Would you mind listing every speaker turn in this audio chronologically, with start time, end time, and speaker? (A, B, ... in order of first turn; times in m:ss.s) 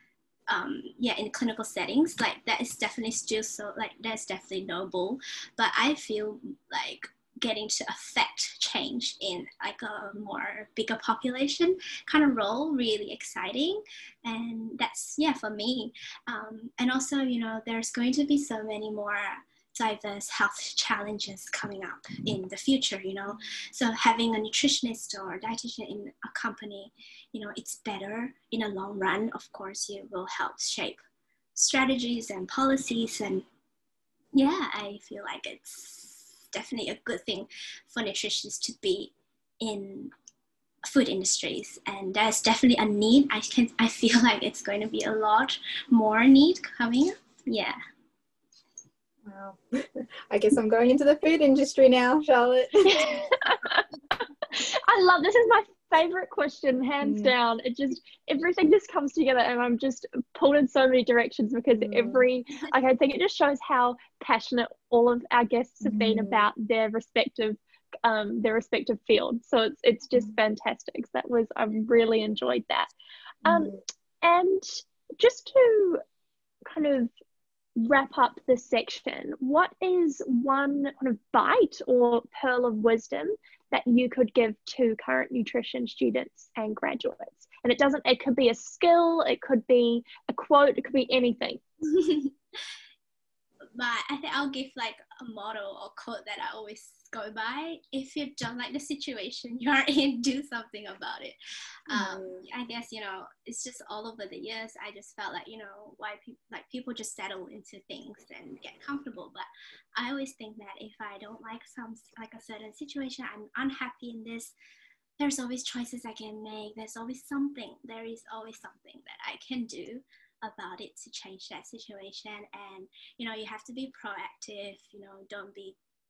0:00.5-0:31.0 A
0:31.6-0:33.5 A
0:34.3-0:40.1 A
0:40.8-0:47.8 A
0:49.2-0:53.3 B
0:52.8-0:53.9 C
0:54.5-1:12.9 C
0:57.0-0:57.3 B
1:01.7-1:02.3 B
1:05.8-1:06.5 B
1:13.4-1:16.0 C
1:13.4-1:13.8 B
1:16.7-1:17.1 C
1:17.8-1:31.6 C
1:31.8-1:32.7 A
1:33.8-1:41.4 A
1:41.9-1:42.4 B
1:41.9-1:54.5 A
1:55.2-2:05.8 A